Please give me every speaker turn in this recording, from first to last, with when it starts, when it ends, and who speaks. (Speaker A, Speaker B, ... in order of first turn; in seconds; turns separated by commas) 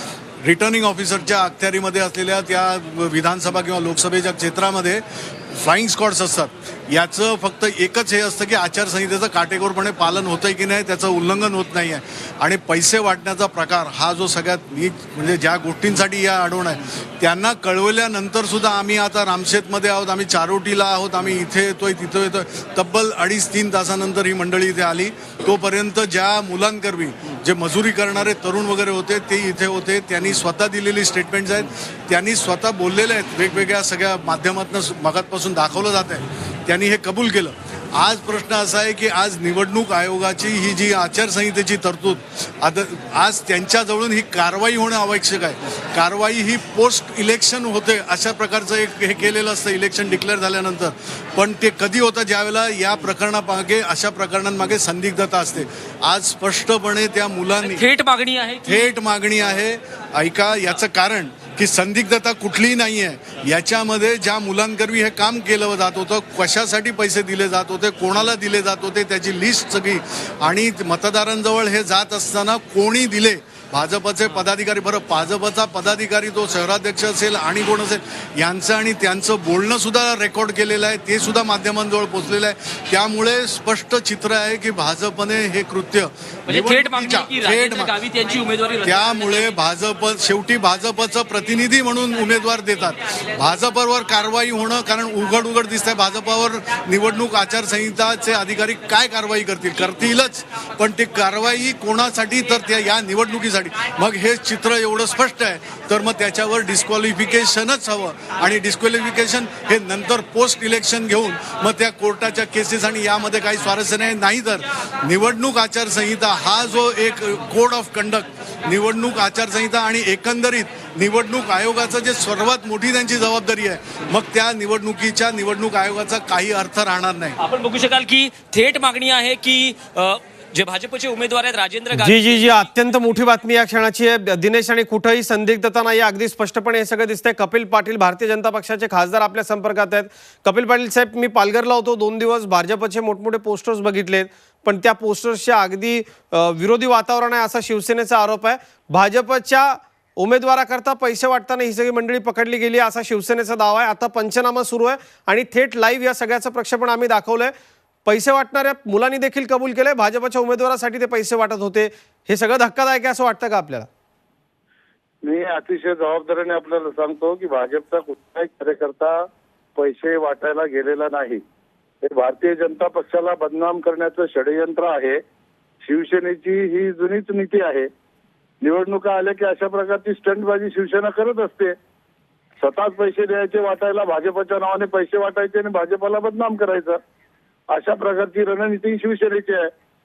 Speaker A: 0.4-57.8, Speaker B: 57.6-58.9, Speaker A: 58.6-87.9, Speaker B: 86.5-89.6, Speaker A: 88.8-127.4, Speaker B: 127.4-133.2, Speaker C: 131.9-157.5, Speaker C: 158.1-163.9, Speaker D: 165.2-169.2, Speaker D: 169.8-171.4, Speaker D: 172.0-175.2, Speaker D: 175.8-177.9, Speaker D: 178.6-181.8, Speaker D: 182.6-187.0, Speaker D: 187.7-189.7